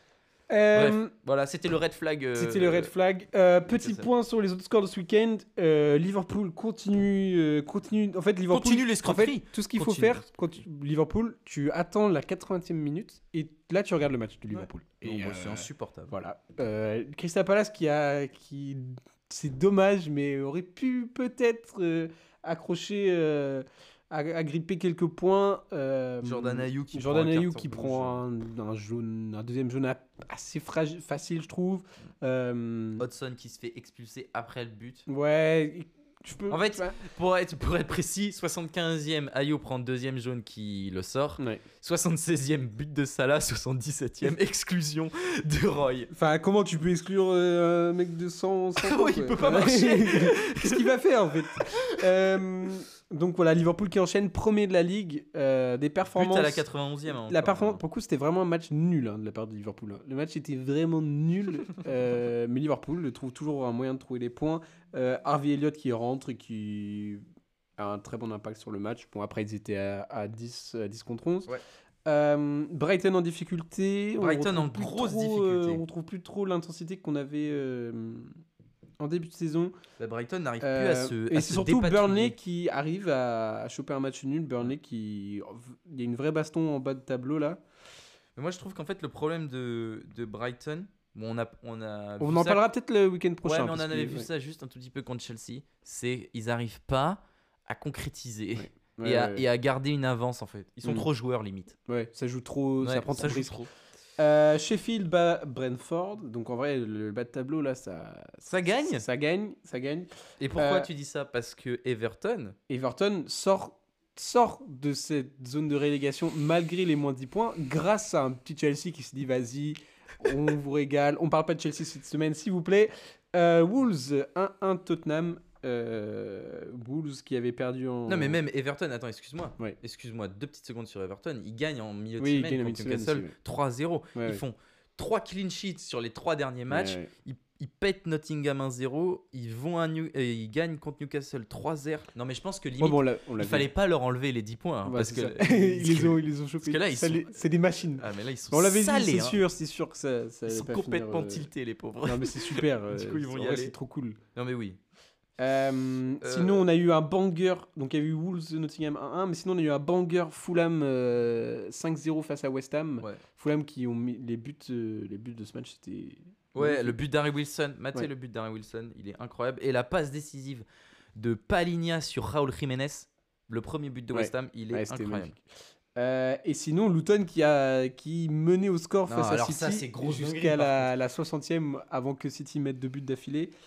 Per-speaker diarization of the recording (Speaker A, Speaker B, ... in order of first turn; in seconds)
Speaker A: 0.5-1.1, 2.4-33.0, 35.1-37.0, 46.1-67.2, 67.8-71.5, 72.1-78.4, 79.0-79.7, 80.6-87.6, 92.2-94.3, 98.6-99.4, 101.9-103.6, 104.2-110.9, 112.7-128.4, 132.2-133.3, 134.1-134.4, 136.7-137.1, 142.8-143.7, 144.8-151.5, 152.0-154.2, 155.4-167.0, 174.1-183.5
Speaker B: 0.7-2.9, 3.7-4.1, 8.5-10.2, 14.5-16.1, 26.2-28.2, 33.0-35.0, 36.5-46.1, 48.8-51.0, 51.5-52.1, 56.2-57.8, 74.2-75.8, 80.0-82.4, 88.4-92.6, 93.4-101.8, 102.8-103.7, 108.5-109.0, 110.4-112.6, 128.1-149.4, 150.5-153.8, 154.3-154.8, 156.2-156.6, 166.6-170.6, 171.2-175.3, 179.1-180.9